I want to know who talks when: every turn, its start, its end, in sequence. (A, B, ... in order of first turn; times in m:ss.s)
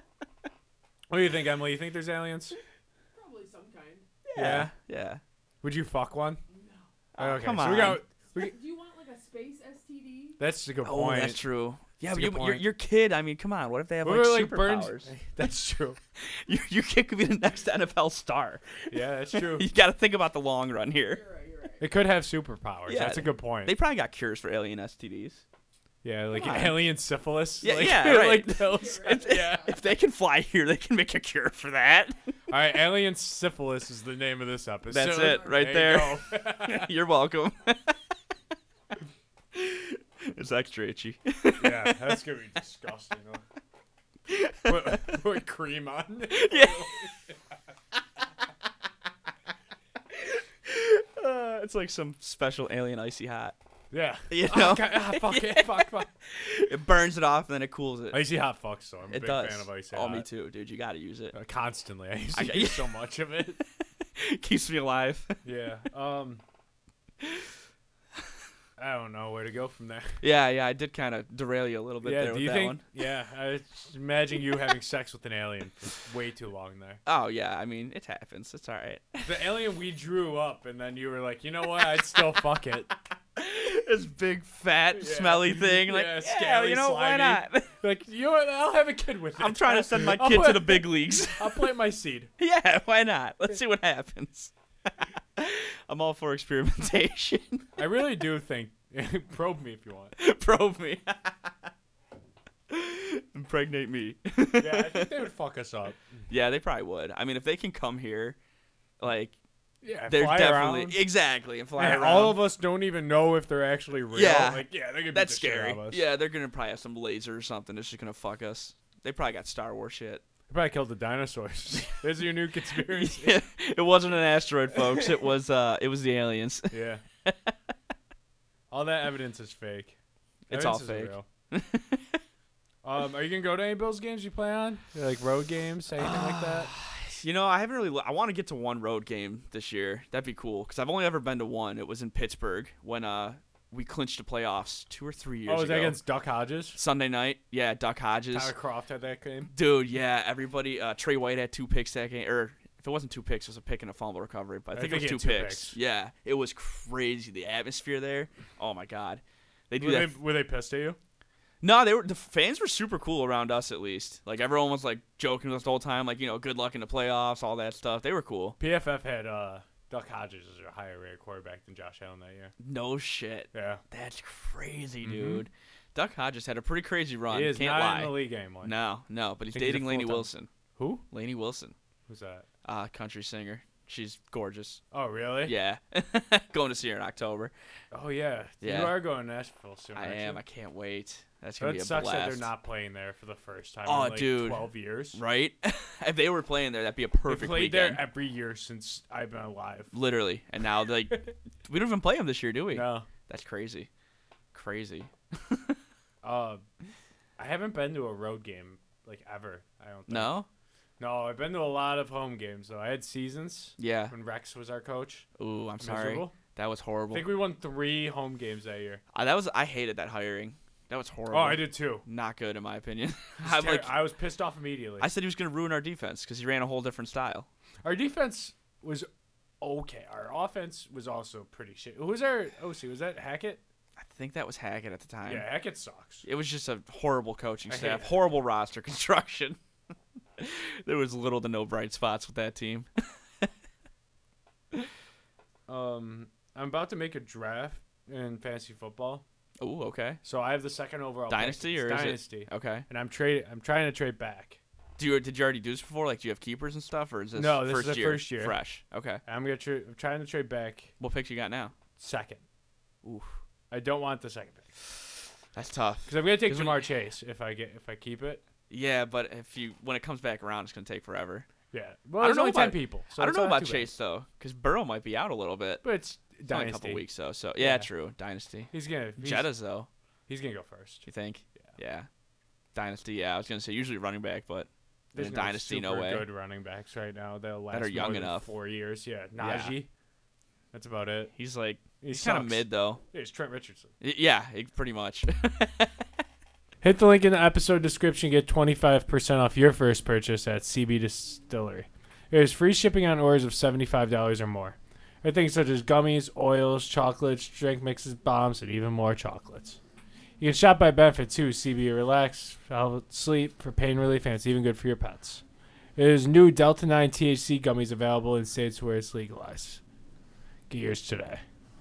0:01.1-0:02.6 A
0:03.2-0:04.1 B
0:04.3-0:05.2 C
0:04.4-0:04.7 A
0:05.6-0:06.4 A
0:06.5-0:06.9 B
0:07.2-0:08.0 C
0:07.2-0:08.5 A
0:08.3-0:10.4 B
0:10.4-0:11.4 A
0:10.8-0:15.1 C
0:12.1-0:12.6 A
0:14.0-0:16.0 A
0:16.2-0:21.2 C
0:18.9-0:19.7 A
0:21.1-0:21.8 B
0:21.8-0:23.7 A
0:22.9-0:25.4 C
0:26.0-0:29.6 A
0:26.4-0:26.8 C
0:27.6-0:32.2 C
0:28.6-0:29.8 B
0:32.5-0:36.9 A
0:34.9-0:38.0 C
0:35.2-0:35.8 B
0:39.5-0:42.2 C
0:41.6-0:43.4 A
0:44.3-0:45.2 C
0:44.6-0:47.4 A
0:46.3-0:47.0 C
0:50.1-0:53.6 C
0:53.9-0:56.1 A
0:54.3-0:58.2 C
0:58.1-1:00.3 A
0:59.1-1:01.4 C
1:01.3-1:03.6 A
1:02.4-1:03.0 C
1:04.2-1:05.4 C
1:05.4-1:06.4 A
1:08.8-1:10.2 A
1:10.2-1:12.9 C
1:12.0-1:17.0 A
1:17.1-1:19.4 C
1:19.3-1:22.9 A
1:23.4-1:27.7 C
1:25.0-1:32.3 A
1:29.4-1:31.7 C
1:32.4-1:37.7 C
1:37.8-1:40.1 A
1:40.2-1:41.7 C
1:42.7-1:45.1 C
1:44.6-1:46.1 A
1:46.3-1:48.4 C
1:49.0-1:49.4 C
1:49.8-1:51.0 A
1:50.1-1:52.4 C
1:51.8-1:56.0 A
1:54.1-2:00.2 C
2:00.5-2:03.4 A
2:02.9-2:07.5 C
2:06.7-2:07.0 A
2:08.7-2:10.0 A
2:10.5-2:12.2 C
2:10.5-2:11.3 A
2:12.8-2:16.7 A
2:16.0-2:26.0 C
2:25.5-2:26.8 A
2:26.8-2:28.5 C
2:28.3-2:29.5 A
2:29.5-2:40.2 C
2:34.8-2:35.8 A
2:39.8-2:41.0 A
2:41.6-2:48.6 C
2:48.6-2:52.5 A
2:52.6-3:00.5 C
2:53.5-2:53.8 A
2:55.0-2:55.4 A
2:57.3-2:58.7 A
2:59.5-3:01.0 A
3:01.1-3:01.7 C
3:02.1-3:02.5 A
3:02.6-3:04.8 C
3:04.9-3:05.5 A
3:05.5-3:07.5 C
3:07.9-3:10.4 A
3:08.6-3:09.0 C
3:10.0-3:12.5 C
3:11.6-3:15.2 A
3:13.9-3:18.0 C
3:17.3-3:19.9 A
3:19.9-3:23.9 C
3:22.7-3:23.1 A
3:24.5-3:25.8 C
3:26.2-3:26.6 A
3:27.4-3:30.3 A
3:30.1-3:30.5 C
3:31.0-3:35.3 A
3:33.8-3:34.1 C
3:35.4-3:37.3 C
3:35.8-3:36.4 A
3:37.1-3:39.0 A
3:39.1-3:44.0 C
3:41.3-3:42.0 A
3:43.4-3:45.1 A
3:45.0-3:47.5 C
3:47.8-3:49.1 A
3:49.6-3:53.6 A
3:54.0-3:55.5 C
3:55.3-3:56.2 A
3:56.2-3:59.6 C
3:57.7-3:58.1 A
4:00.4-4:02.9 C
4:05.7-4:09.2 A
4:09.6-4:10.2 C
4:10.2-4:14.6 A
4:11.3-4:12.9 C
4:15.0-4:19.2 C
4:17.4-4:18.6 A
4:19.2-4:20.9 A
4:21.0-4:21.7 C
4:22.0-4:22.4 A
4:23.0-4:23.4 C
4:23.7-4:24.7 A
4:25.5-4:26.9 C
4:26.1-4:28.4 A
4:28.7-4:31.5 C
4:31.7-4:33.9 A
4:32.2-4:35.9 C
4:35.8-4:37.0 A
4:36.5-4:39.9 C
4:37.6-4:37.9 A
4:38.7-4:39.5 A
4:40.3-4:41.1 A
4:41.1-4:42.1 C
4:42.8-4:46.2 C
4:45.1-4:49.9 A
4:47.7-4:48.5 C
4:49.4-4:49.8 C
4:50.7-4:51.3 A
4:51.4-4:53.0 C
4:52.0-4:53.9 A
4:54.0-4:55.9 C
4:56.8-5:09.8 A
5:10.4-5:15.4 A
5:16.0-5:19.8 A
5:20.7-5:21.4 A